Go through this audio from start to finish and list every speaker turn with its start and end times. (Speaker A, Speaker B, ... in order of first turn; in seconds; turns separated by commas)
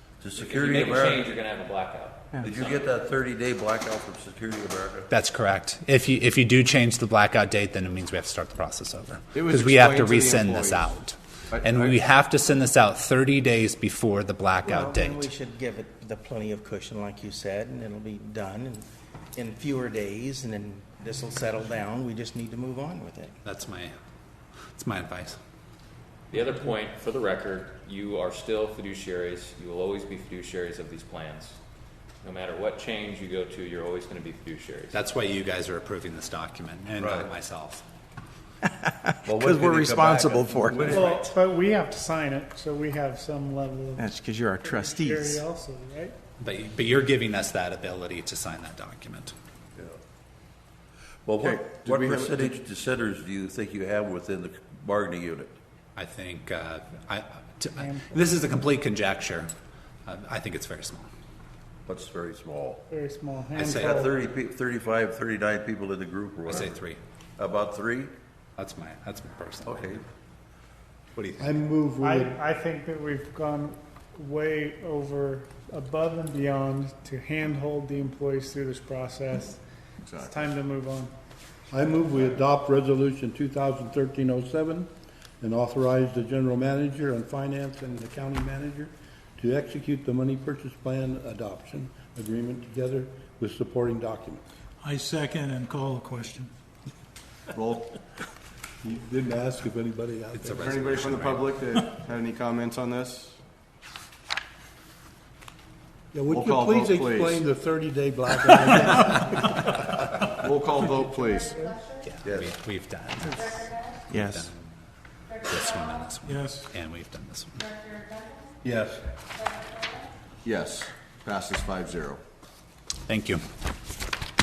Speaker A: 0.2-1.3, Speaker B: 0.3-2.9, Speaker A: 2.4-5.1, Speaker C: 5.1-15.3, Speaker D: 9.3-10.9, Speaker D: 11.5-11.8, Speaker E: 14.6-23.4, Speaker C: 23.4-24.0, Speaker C: 24.7-25.4, Speaker B: 26.3-31.6, Speaker B: 32.2-35.0, Speaker C: 34.9-37.8, Speaker A: 37.0-37.3, Speaker E: 38.6-41.1, Speaker A: 39.2-41.0, Speaker F: 40.9-44.1, Speaker E: 44.0-45.4, Speaker F: 44.6-46.1, Speaker C: 46.4-49.3, Speaker A: 51.2-55.5, Speaker D: 51.4-52.5, Speaker C: 56.0-59.5, Speaker F: 57.8-58.4, Speaker C: 60.0-61.1, Speaker A: 61.9-62.8, Speaker F: 62.9-64.2, Speaker A: 63.5-66.8, Speaker C: 63.6-64.0, Speaker C: 66.5-67.0, Speaker A: 67.4-68.1, Speaker C: 68.6-70.0, Speaker A: 69.6-70.0, Speaker C: 71.1-71.5, Speaker G: 71.4-72.4, Speaker F: 72.0-79.6, Speaker D: 80.0-80.4, Speaker F: 80.2-81.1, Speaker G: 81.7-94.4, Speaker H: 94.8-96.5, Speaker D: 97.5-98.0, Speaker G: 98.8-100.7, Speaker C: 100.3-101.5, Speaker D: 100.6-103.4, Speaker G: 106.1-109.8, Speaker D: 106.3-107.4, Speaker D: 110.3-111.8, Speaker C: 112.0-114.7, Speaker A: 112.2-112.5, Speaker E: 114.1-114.5, Speaker C: 115.4-117.7, Speaker H: 116.2-116.7, Speaker G: 118.6-119.1, Speaker D: 120.4-122.2, Speaker C: 123.1-123.4